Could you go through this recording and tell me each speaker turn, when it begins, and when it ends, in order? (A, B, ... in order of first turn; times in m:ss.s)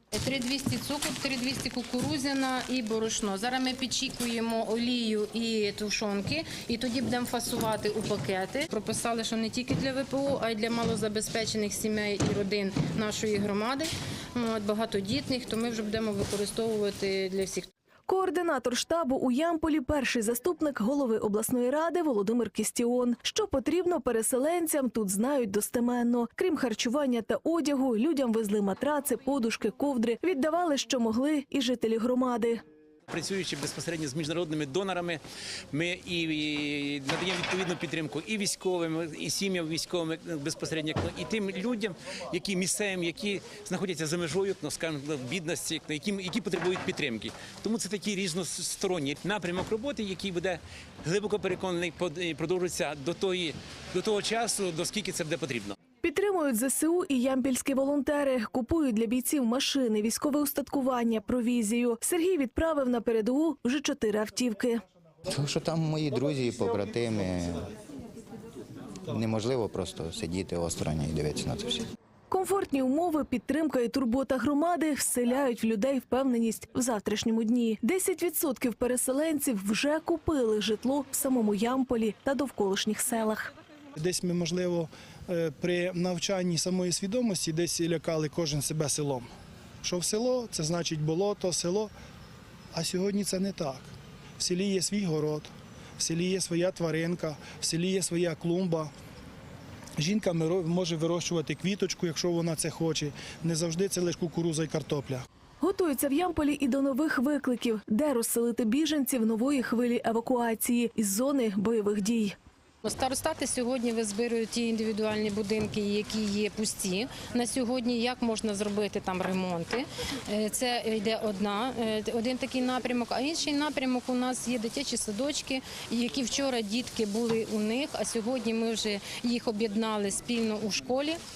0:00.1-0:17.7 A
0:18.1-0:32.6 B
0:33.1-0:35.1 C
0:35.7-0:36.1 C
0:38.5-0:38.8 C
0:39.4-0:41.8 C
0:42.4-0:50.5 C
0:51.1-0:55.7 C
0:56.0-1:04.8 B
1:05.3-1:07.7 D
1:09.1-1:11.9 D
1:12.3-1:23.5 B
1:24.1-1:24.8 E
1:25.4-1:29.3 E
1:29.8-1:31.9 E
1:32.9-1:33.8 E
1:34.6-1:35.5 E
1:36.2-1:38.9 E
1:40.0-1:45.2 E
1:45.6-1:52.4 B
1:52.8-2:11.2 A